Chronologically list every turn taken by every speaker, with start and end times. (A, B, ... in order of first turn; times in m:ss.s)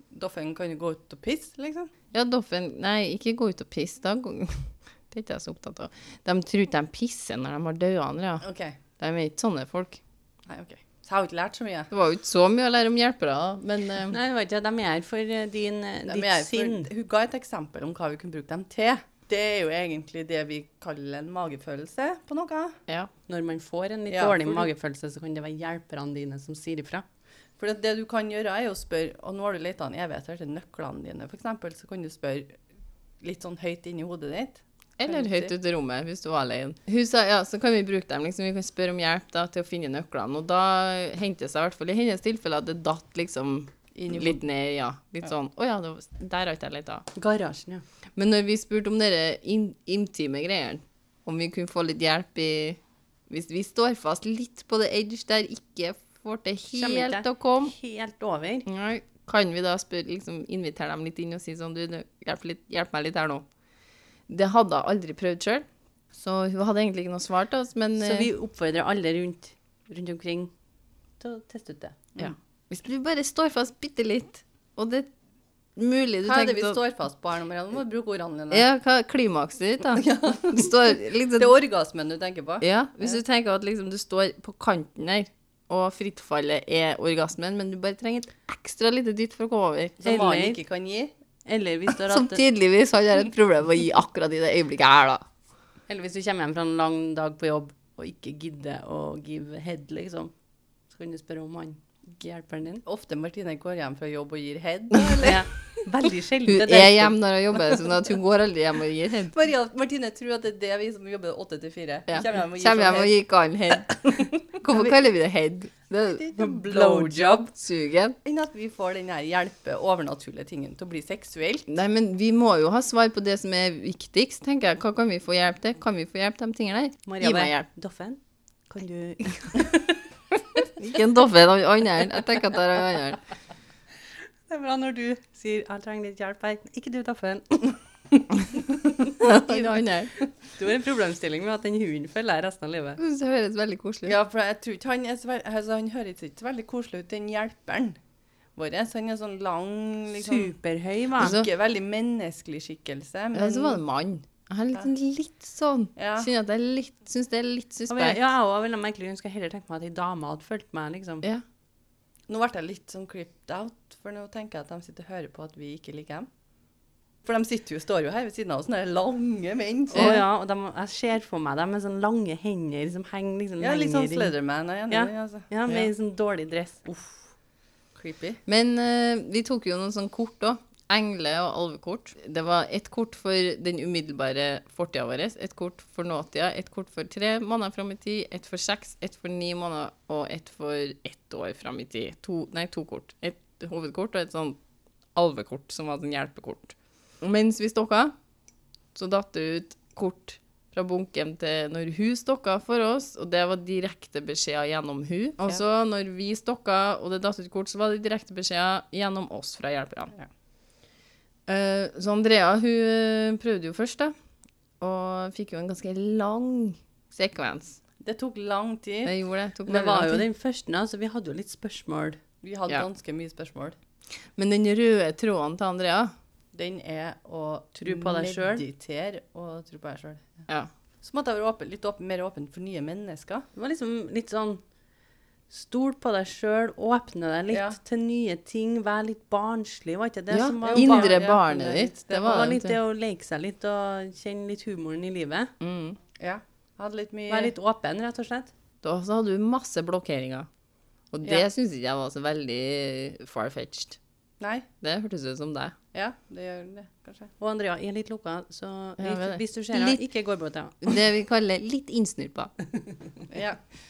0:00.1-0:01.9 A
0:02.1-0:08.4 B
0:08.4-0:08.8 A
0:09.0-0:10.0 B
0:10.5-0:11.9 A
0:11.9-0:14.2 B
0:14.1-0:16.9 C
0:16.1-0:22.8 A
0:23.3-0:27.0 C
0:24.1-0:24.7 A
0:27.6-0:32.6 A
0:33.2-0:35.5 A
0:35.0-0:47.0 B
0:44.0-0:44.4 A
0:47.2-0:47.8 C
0:48.2-0:57.7 B
0:56.7-0:58.7 C
0:58.7-1:03.5 B
1:04.3-1:08.3 B
1:08.0-1:10.5 C
1:11.2-1:12.0 C
1:12.2-1:15.1 B
1:15.8-1:16.8 B
1:16.2-1:18.7 A
1:18.5-1:21.5 B
1:20.0-1:23.2 A
1:22.6-1:30.0 B
1:30.0-1:31.1 A
1:30.0-1:30.6 C
1:31.5-1:32.4 C
1:32.0-1:35.3 B
1:35.9-1:40.3 C
1:40.9-1:42.8 C
1:42.8-1:45.4 A
1:45.2-1:47.2 C
1:46.5-1:49.3 B
1:49.3-1:53.2 A
1:52.1-1:56.3 B
1:53.9-1:54.9 A
1:56.0-1:57.4 A
1:56.4-1:57.5 C
1:57.4-1:58.2 B
1:58.2-2:01.7 A
2:01.7-2:07.7 B
2:07.1-2:09.9 C
2:10.8-2:13.2 B
2:14.5-2:17.8 C
2:19.1-2:20.1 B
2:20.6-2:23.0 C
2:23.0-2:24.2 B
2:24.0-2:28.0 A
2:28.6-2:30.5 A
2:30.2-2:31.4 C
2:31.2-2:33.8 A
2:31.2-2:31.5 B
2:33.3-2:38.2 B
2:36.0-2:36.3 A
2:37.9-2:41.2 C
2:42.3-2:46.3 A
2:47.2-2:50.2 A
2:49.9-2:54.3 C
2:50.0-2:50.2 B
2:53.6-2:55.5 A
2:54.9-2:56.8 C
2:56.9-2:57.2 A
2:58.0-2:58.4 A
2:58.5-3:14.6 B
3:15.2-3:18.1 B
3:19.0-3:30.1 B
3:31.5-3:34.1 B
3:34.8-3:37.8 B
3:38.0-3:39.2 A
3:39.0-3:40.3 B
3:39.7-3:42.2 C
3:42.4-3:43.8 A
3:44.4-3:46.1 B
3:46.5-3:50.5 A
3:47.8-3:48.6 C
3:51.0-3:53.5 A
3:53.6-3:54.6 C
3:55.5-4:01.2 C
3:57.5-3:57.8 A
4:00.3-4:02.8 B
4:00.6-4:02.1 A
4:02.1-4:05.5 C
4:05.6-4:06.0 B
4:06.2-4:07.5 A
4:07.3-4:08.5 C
4:08.8-4:10.5 B
4:11.1-4:14.0 B
4:14.4-4:14.7 A
4:14.8-4:15.8 B
4:15.9-4:17.3 A
4:17.4-4:20.8 C
4:19.0-4:20.0 B
4:20.8-4:22.5 B
4:23.3-4:23.6 A